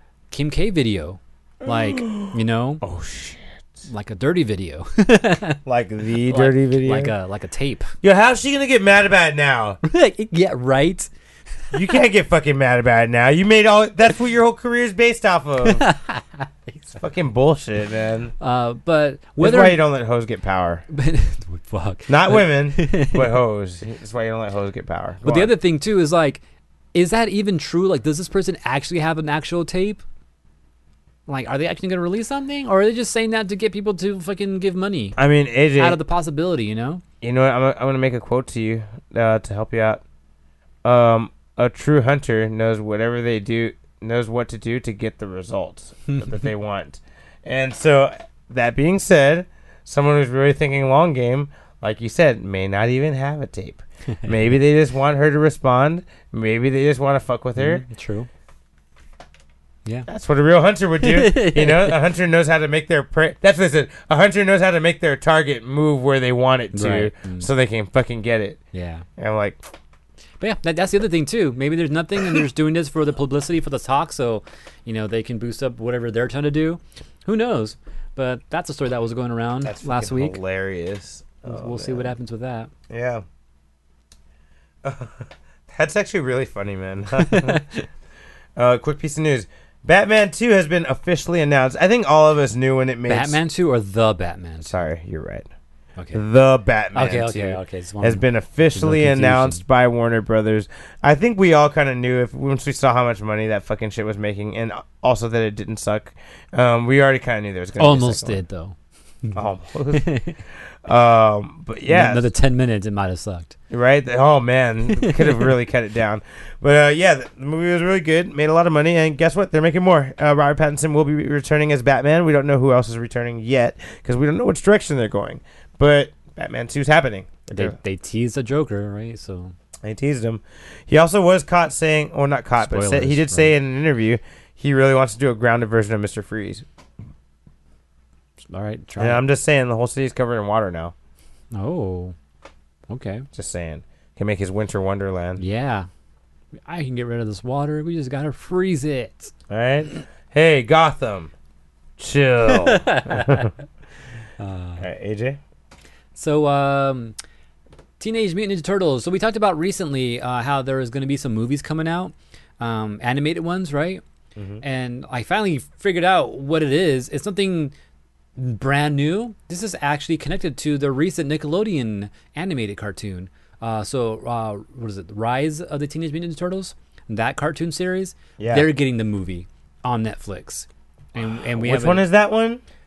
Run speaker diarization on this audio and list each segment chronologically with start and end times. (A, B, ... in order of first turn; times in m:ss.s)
0:00.3-0:02.8 A
0:01.6-0:03.8 B
0:03.9-0:05.6 A
0:05.6-0:07.1 B
0:06.2-0:07.9 A
0:08.0-0:09.8 B
0:09.8-0:11.1 A
0:11.7-0:15.8 B
0:15.6-0:17.0 A
0:16.9-0:18.3 B
0:18.4-0:19.8 A
0:19.4-0:20.8 B
0:20.9-0:23.3 A
0:22.1-0:25.5 B
0:25.2-0:26.4 A
0:26.9-0:30.0 A
0:31.3-0:35.2 A
0:35.2-0:36.0 B
0:35.8-0:37.0 A
0:37.2-0:40.0 B
0:40.8-0:57.8 B
0:54.1-0:54.5 A
0:57.6-0:58.3 A
1:00.1-1:08.6 B
1:01.0-1:02.0 A
1:06.7-1:07.5 A
1:08.7-1:09.0 A
1:09.2-1:09.6 B
1:10.4-1:20.4 A
1:19.6-1:22.1 B
1:21.4-1:22.7 A
1:22.9-1:23.2 B
1:24.8-1:27.6 B
1:27.2-1:27.8 A
1:28.6-1:33.4 B
1:33.1-1:34.7 A
1:34.6-1:35.5 B
1:36.0-1:36.2 A
1:36.1-1:48.4 B
1:36.9-1:39.6 A
1:47.8-1:50.4 A
1:49.3-1:50.1 B
1:50.8-1:52.3 B
1:51.9-1:53.6 A
1:53.7-2:07.8 B
1:54.9-1:55.5 A
2:07.5-2:09.5 A
2:09.8-2:16.6 B
2:12.6-2:13.5 A
2:18.4-2:19.2 A
2:19.0-2:20.9 B
2:21.5-2:22.1 A
2:22.9-2:23.3 A
2:23.3-2:25.4 B
2:25.4-2:25.9 A
2:26.6-2:29.3 A
2:29.5-2:31.3 B
2:32.0-2:33.5 B
2:32.5-2:33.5 A
2:34.4-2:34.8 A
2:34.8-2:35.4 B
2:36.1-2:37.1 A
2:38.0-2:44.0 A
2:44.4-2:44.6 B
2:44.6-2:47.7 A
2:48.4-3:02.0 A
2:58.4-2:58.7 B
3:01.6-3:02.6 B